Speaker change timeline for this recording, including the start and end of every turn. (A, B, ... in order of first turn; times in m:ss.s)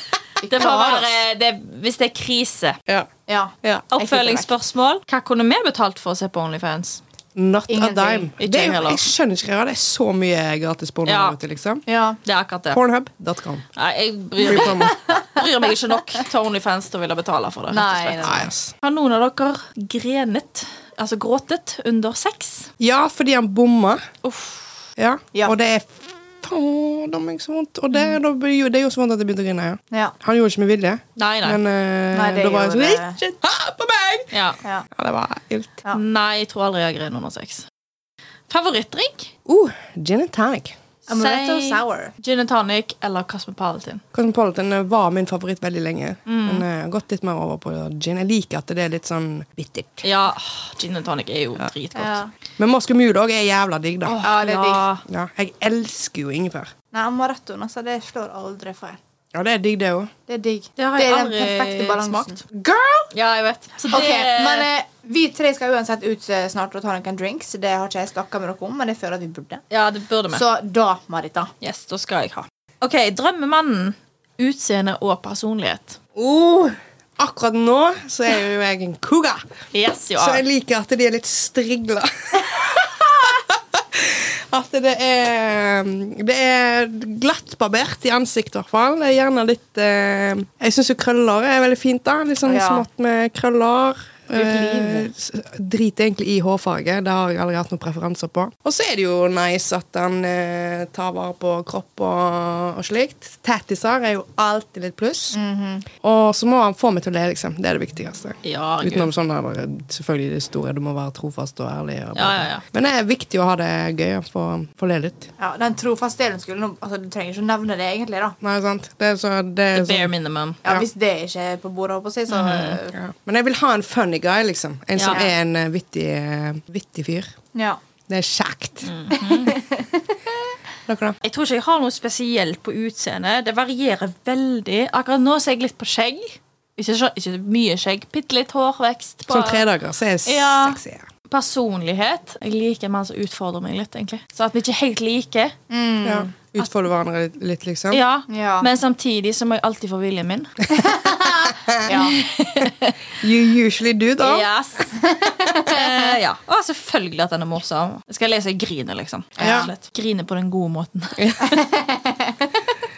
0:00.4-0:01.2 A
0:00.4-0:02.8 B
0:03.3-0:04.5 A
0:03.9-0:07.0 B
0:07.3-0:11.8 C
0:07.7-0:08.3 A
0:08.4-0:09.0 B
0:11.0-0:11.3 B
0:11.9-0:12.2 A
0:12.2-0:12.8 B
0:12.7-0:13.6 C
0:13.7-0:22.7 B
0:14.4-0:15.0 C
0:14.5-0:15.4 A
0:17.7-0:18.4 A
0:18.2-0:18.7 C
0:22.8-0:24.1 C
0:24.2-0:24.8 B
0:25.0-0:34.4 C
0:31.2-0:31.6 B
0:32.1-0:33.2 A
0:34.3-0:34.6 B
0:34.9-0:35.8 C
0:35.9-0:37.6 B
0:38.5-0:39.3 B
0:39.4-0:40.8 C
0:41.1-0:42.1 A
0:41.1-0:44.0 B
0:44.1-0:50.1 C
0:46.3-0:46.6 B
0:50.0-0:52.2 B
0:51.9-0:52.3 A
0:52.6-0:54.2 C
0:54.0-0:55.0 B
0:54.2-0:54.8 A
0:55.0-0:56.7 C
0:56.9-0:59.0 A
0:59.3-1:00.1 C
1:00.3-1:03.1 A
1:00.8-1:02.4 B
1:03.1-1:04.7 B
1:03.9-1:09.6 A
1:09.7-1:10.4 B
1:10.3-1:11.5 A
1:11.6-1:16.0 B
1:16.1-1:19.4 C
1:19.7-1:20.4 B
1:20.2-1:45.4 C
1:32.4-1:32.8 A
1:34.3-1:35.1 A
1:45.3-1:45.8 A
1:45.9-1:55.3 C
1:48.4-1:49.1 B
1:52.1-1:52.6 B
1:55.4-1:58.4 A
1:58.4-2:00.1 C
1:59.7-2:00.6 B
2:00.6-2:02.9 A
2:02.3-2:02.8 B
2:02.9-2:07.3 C
2:05.0-2:05.2 B
2:08.1-2:08.9 C
2:08.8-2:09.5 B
2:09.1-2:10.2 A
2:10.9-2:11.2 C
2:11.2-2:19.6 B
2:19.3-2:21.1 C
2:20.2-2:20.8 B
2:21.3-2:25.6 B
2:25.7-2:26.3 A
2:26.0-2:28.0 C
2:27.9-2:30.7 B
2:28.3-2:28.7 A
2:30.7-2:32.2 A
2:31.8-2:33.0 B
2:32.6-2:34.5 C
2:34.2-2:41.4 B
2:34.9-2:36.0 A
2:39.4-2:39.7 A
2:39.4-2:39.7 C
2:41.2-2:41.6 C
2:41.4-2:42.7 A